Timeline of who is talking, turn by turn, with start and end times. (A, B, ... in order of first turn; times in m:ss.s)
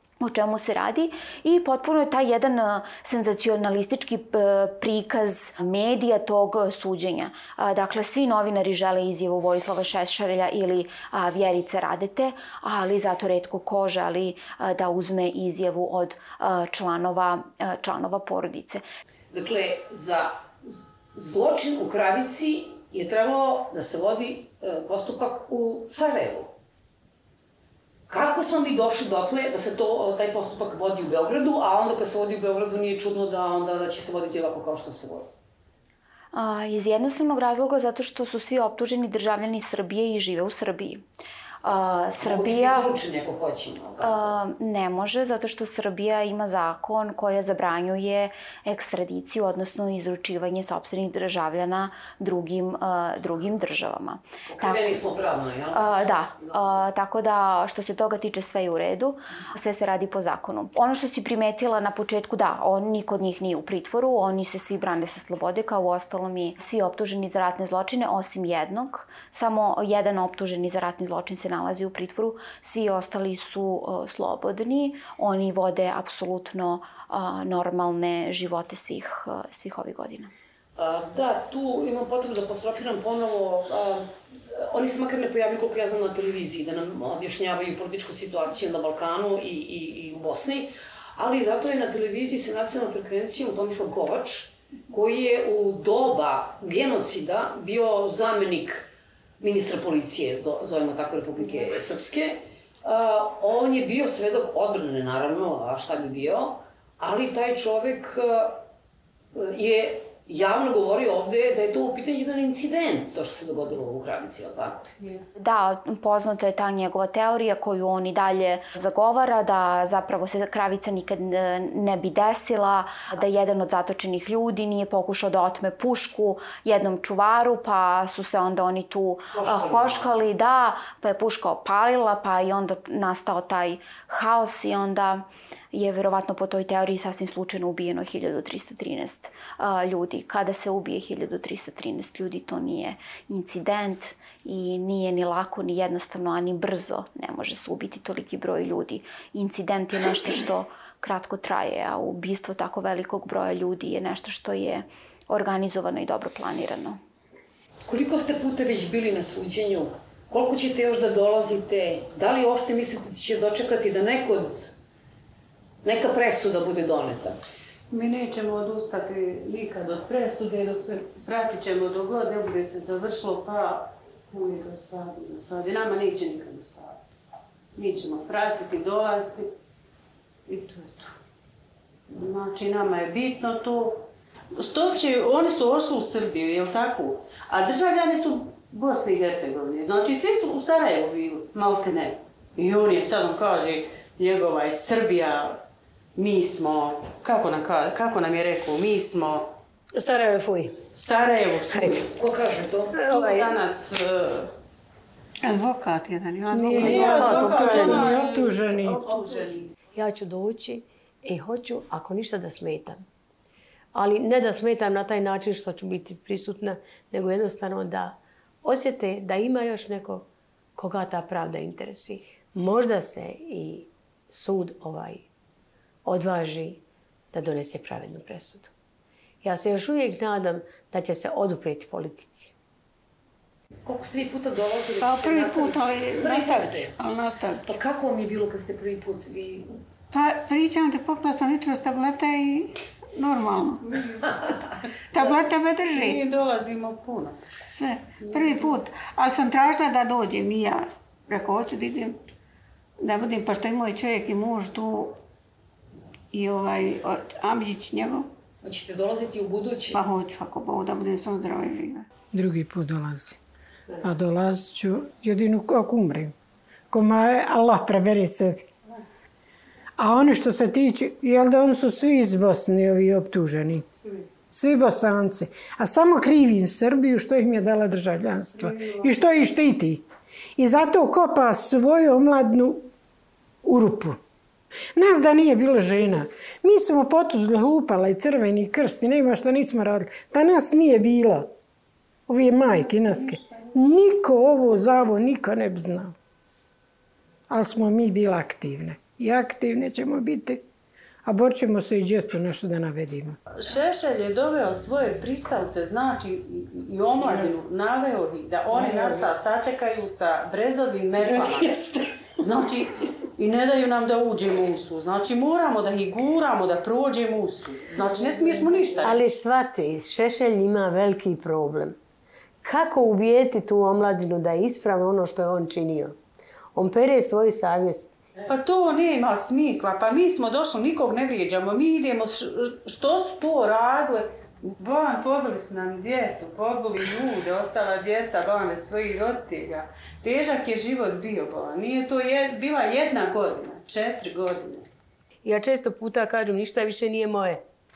0:00.2-0:18.8 A
0:19.3-0:26.5 B
0:28.1-0:35.3 B
0:36.3-0:41.0 A
0:41.6-0:43.0 A
0:42.2-0:44.3 B
0:44.0-0:54.9 A
0:54.5-0:56.5 B
0:55.7-1:20.3 A
1:20.8-1:38.9 B
1:39.4-1:48.6 B
1:49.3-1:55.1 B
1:55.4-2:37.0 A
2:09.4-2:10.1 B
2:37.9-2:44.7 B
2:45.8-2:47.4 B
2:47.9-2:57.0 C
2:57.8-2:59.5 C
3:00.5-3:01.2 C
3:02.1-3:15.6 C
3:16.2-3:19.5 C
3:19.9-3:20.9 D
3:20.9-3:22.1 C
3:21.7-3:22.0 D
3:22.1-3:22.9 B
3:22.9-3:23.6 D
3:23.0-3:24.5 C
3:25.4-3:27.4 E
3:26.5-3:29.0 F
3:26.7-3:29.7 C
3:26.8-3:28.1 D
3:29.9-3:33.0 D
3:33.9-3:40.2 D
3:40.8-3:45.3 D
3:46.0-3:46.8 D
3:47.3-3:48.7 D
3:49.4-3:52.5 D
3:53.8-3:56.9 B
3:55.0-3:57.8 E
3:57.6-3:59.7 B
4:00.1-4:04.0 E
4:05.1-4:06.2 E
4:05.9-4:07.4 C
4:07.7-4:12.2 E
4:13.0-4:15.2 E
4:16.3-4:18.3 E
4:18.6-4:20.0 B
4:19.9-4:22.1 E
4:22.3-4:23.4 F
4:24.0-4:26.3 F
4:26.9-4:28.7 F
4:30.0-4:33.9 F
4:34.5-4:40.0 F
4:40.6-4:42.9 F
4:43.6-4:44.2 F
4:45.0-4:51.5 F
4:52.3-4:56.1 F
4:57.5-5:00.6 F
5:01.2-5:03.4 F
5:03.5-5:11.8 C
5:08.8-5:09.0 F
5:12.4-5:19.3 C
5:19.0-5:22.0 D
5:22.6-5:26.2 D
5:26.7-5:28.2 D
5:28.4-5:44.9 C
5:45.4-5:47.6 D